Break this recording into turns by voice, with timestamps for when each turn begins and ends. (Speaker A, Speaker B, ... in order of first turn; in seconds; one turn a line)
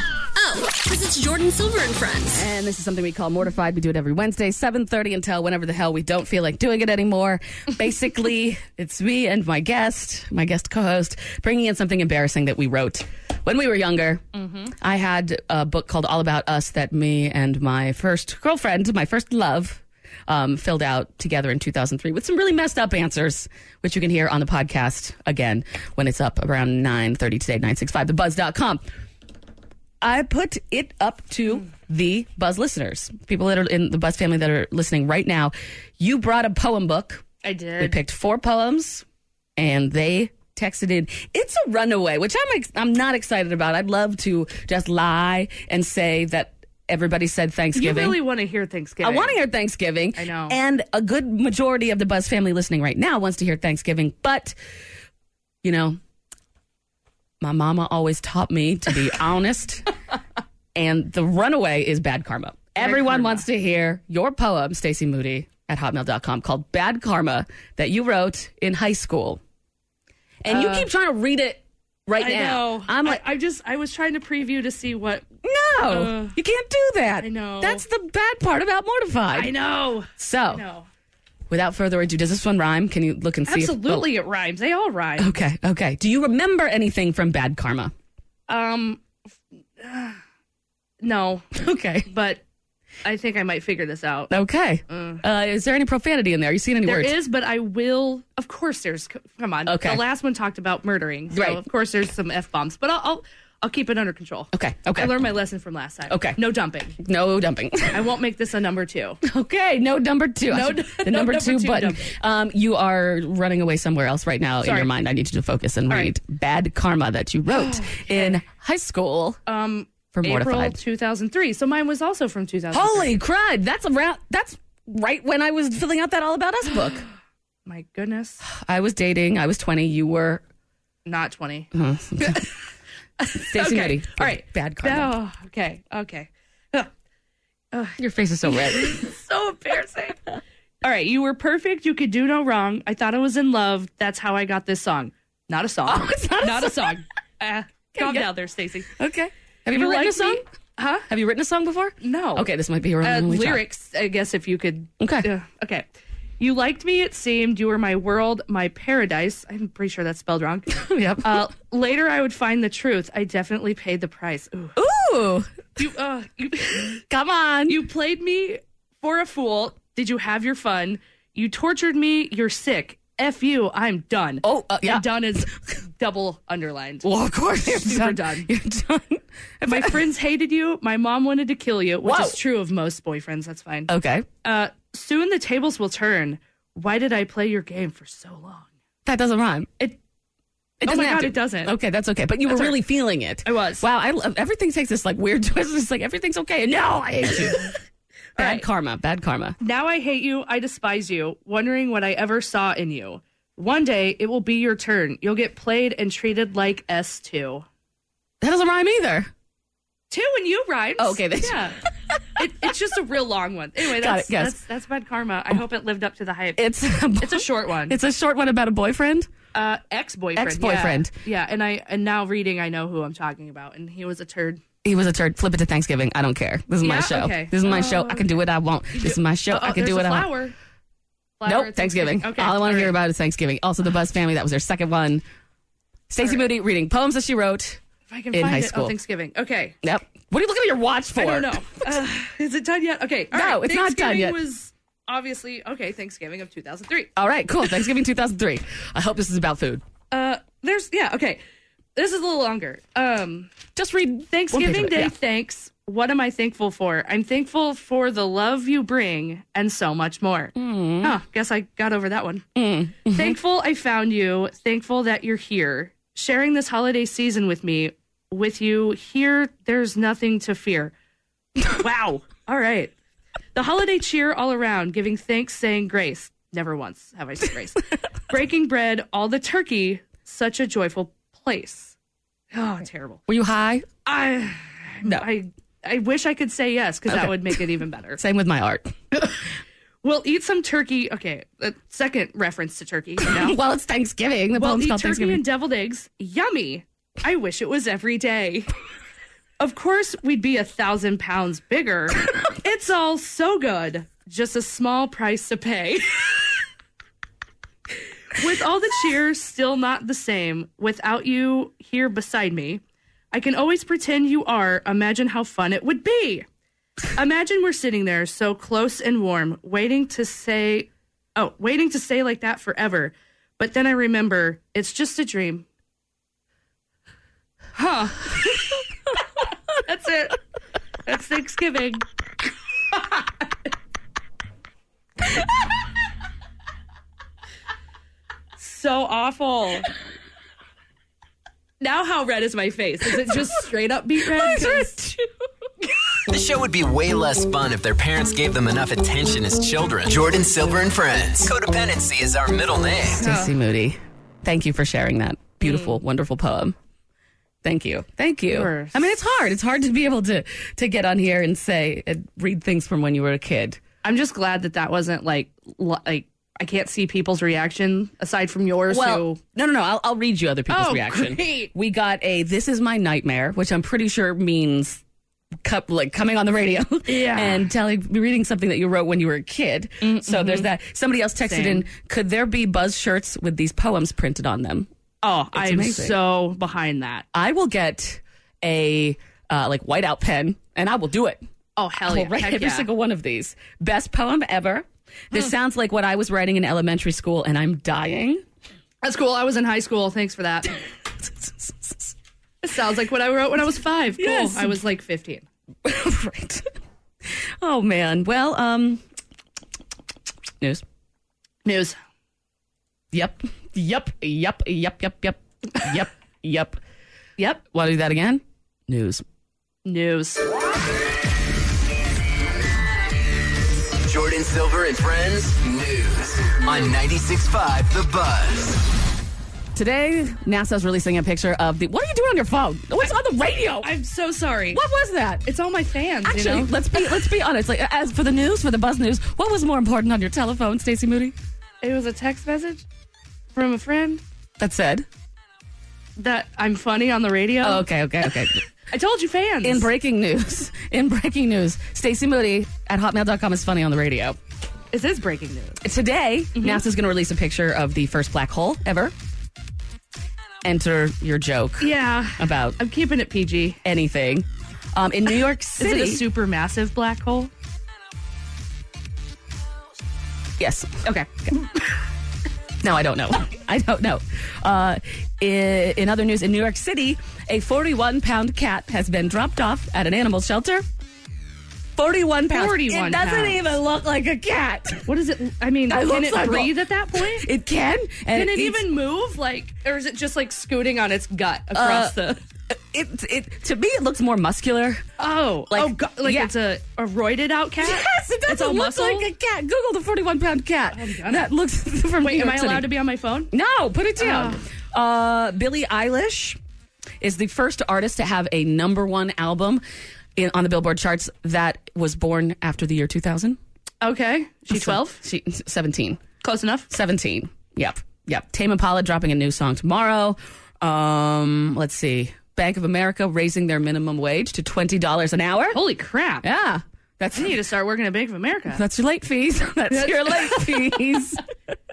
Speaker A: 0.3-2.5
Speaker B: 2.3-28.8
Speaker C: 14.3-14.7
Speaker B: 30.0-37.2
Speaker C: 37.4-38.0
Speaker B: 37.8-39.0
Speaker B: 39.6-48.2
Speaker C: 47.8-49.4
Speaker B: 49.0-54.6
Speaker C: 50.2-50.6
Speaker B: 55.6-56.0
Speaker B: 57.4-59.9
Speaker B: 60.8-69.4
Speaker C: 62.8-63.5
Speaker B: 70.4-73.2
Speaker C: 70.5-70.9
Speaker C: 72.2-75.2
Speaker B: 75.4-79.5
Speaker C: 75.9-76.3
Speaker C: 77.2-77.8
Speaker C: 79.3-80.9
Speaker B: 80.2-80.6
Speaker B: 81.5-84.1
Speaker C: 83.5-85.4
Speaker B: 85.2-87.9
Speaker C: 88.5-89.0
Speaker C: 89.8-90.2
Speaker C: 91.0-91.5
Speaker B: 91.5-92.1
Speaker C: 92.1-92.4
Speaker C: 93.0-94.3
Speaker B: 94.3-97.2
Speaker C: 94.9-95.2
Speaker C: 96.8-107.0
Speaker B: 99.7-100.0
Speaker B: 101.3-101.6
Speaker B: 104.5-105.3
Speaker B: 106.1-106.4
Speaker B: 107.0-108.1
Speaker C: 107.9-109.2
Speaker B: 109.2-119.4
Speaker C: 110.5-112.1
Speaker C: 114.6-114.9
Speaker C: 117.5-118.4
Speaker C: 119.5-123.2
Speaker B: 120.1-120.8
Speaker B: 122.7-127.0
Speaker C: 127.7-128.4
Speaker B: 128.4-130.4
Speaker C: 131.1-131.7
Speaker B: 131.7-132.5
Speaker C: 133.2-136.9
Speaker B: 133.3-135.1
Speaker C: 137.7-140.2
Speaker B: 138.0-139.1
Speaker C: 140.8-148.9
Speaker B: 145.9-147.0
Speaker B: 147.9-148.3
Speaker B: 148.9-150.4
Speaker C: 149.7-151.1
Speaker B: 151.1-153.7
Speaker C: 152.0-152.5
Speaker C: 153.0-155.9
Speaker B: 155.0-155.3
Speaker C: 156.4-164.8
Speaker B: 160.7-161.5
Speaker B: 164.8-165.5
Speaker C: 165.8-167.0
Speaker B: 167.1-167.8
Speaker C: 167.7-177.1
Speaker B: 174.4-175.5
Speaker B: 177.0-180.0
Speaker C: 177.6-178.5
Speaker C: 179.7-183.9
Speaker B: 182.0-182.4
Speaker B: 183.9-184.3
Speaker C: 184.4-188.7
Speaker B: 189.1-189.7
Speaker B: 190.8-197.7
Speaker C: 190.8-191.8
Speaker C: 192.5-192.8
Speaker C: 193.4-193.8
Speaker C: 198.4-198.7
Speaker B: 198.4-199.6
Speaker C: 199.6-207.7
Speaker B: 208.4-209.3
Speaker C: 210.1-211.8
Speaker B: 211.0-212.5
Speaker C: 212.4-218.0
Speaker B: 213.8-214.6
Speaker B: 216.6-219.3
Speaker C: 219.5-224.6
Speaker B: 220.4-221.1
Speaker B: 224.8-230.3
Speaker C: 226.8-228.4
Speaker C: 228.9-230.5
Speaker C: 231.4-232.9
Speaker B: 231.4-235.2
Speaker B: 236.1-237.8
Speaker C: 238.1-239.8
Speaker B: 238.3-239.0
Speaker B: 239.8-241.9
Speaker C: 241.2-247.1
Speaker B: 243.3-244.4
Speaker B: 247.2-249.8
Speaker C: 250.1-251.4
Speaker C: 252.0-253.5
Speaker B: 253.8-255.1
Speaker C: 254.3-262.4
Speaker B: 260.6-261.2
Speaker B: 262.6-263.4
Speaker C: 263.1-270.9
Speaker C: 271.7-272.9
Speaker C: 273.6-281.9
Speaker C: 282.5-283.2
Speaker B: 283.3-283.9
Speaker C: 284.1-288.2
Speaker B: 287.1-287.6
Speaker B: 288.2-289.3
Speaker C: 290.0-293.6
Speaker B: 293.2-295.4
Speaker C: 294.5-298.7
Speaker C: 299.6-306.4
Speaker C: 308.4-316.5
Speaker C: 317.1-325.7
Speaker C: 327.8-328.6
Speaker C: 329.9-330.4
Speaker C: 331.1-332.0
Speaker C: 332.9-333.2
Speaker C: 338.6-339.9
Speaker C: 341.8-345.0
Speaker B: 344.3-345.3
Speaker D: 346.3-353.2
Speaker B: 353.1-356.8
Speaker C: 353.2-353.5
Speaker C: 355.6-355.9
Speaker B: 357.6-363.8
Speaker C: 358.5-359.0
Speaker C: 364.0-369.4
Speaker B: 368.9-375.0
Speaker C: 370.7-371.7
Speaker B: 375.6-384.9
Speaker C: 377.1-377.7
Speaker C: 380.0-380.7
Speaker C: 381.4-381.9
Speaker C: 385.2-387.3
Speaker B: 385.5-386.2
Speaker B: 387.3-391.4
Speaker C: 391.8-392.9
Speaker B: 392.1-398.4
Speaker C: 399.0-400.7
Speaker B: 401.2-402.1
Speaker C: 402.6-405.5
Speaker B: 404.2-404.8
Speaker B: 405.9-406.7
Speaker B: 407.3-409.0
Speaker C: 411.6-412.0
Speaker B: 413.1-416.8
Speaker B: 417.6-419.2
Speaker C: 419.9-420.4
Speaker D: 424.0-428.8
Speaker B: 429.8-433.9
Speaker C: 433.8-434.8
Speaker B: 434.7-435.5
Speaker C: 435.4-436.8
Speaker B: 436.2-441.4
Speaker C: 441.8-442.8
Speaker C: 443.6-444.2
Speaker B: 444.6-445.1
Speaker C: 446.2-447.9
Speaker B: 447.6-448.6
Speaker C: 448.9-449.9
Speaker B: 449.6-454.4
Speaker C: 454.9-455.8
Speaker B: 455.8-459.1
Speaker C: 456.6-456.8
Speaker B: 460.6-462.8
Speaker C: 461.8-463.8
Speaker B: 463.8-466.2
Speaker C: 465.8-467.5
Speaker B: 470.6-471.1
Speaker B: 472.8-480.9
Speaker B: 482.0-485.1
Speaker C: 482.5-483.7
Speaker C: 485.1-487.5
Speaker B: 485.9-488.9
Speaker C: 488.3-492.4
Speaker B: 491.7-492.2
Speaker B: 492.7-495.1
Speaker C: 495.2-499.3
Speaker B: 495.7-496.5
Speaker B: 497.8-502.9
Speaker C: 500.9-501.5
Speaker C: 502.2-503.5
Speaker B: 503.5-506.6
Speaker C: 504.2-504.6
Speaker B: 507.2-509.8
Speaker B: 510.4-513.6
Speaker C: 514.0-515.2
Speaker B: 514.7-516.2
Speaker C: 516.4-516.9
Speaker B: 516.9-525.8
Speaker C: 525.7-526.5
Speaker B: 526.4-527.6
Speaker C: 527.4-528.8
Speaker B: 528.7-531.4
Speaker C: 529.9-531.0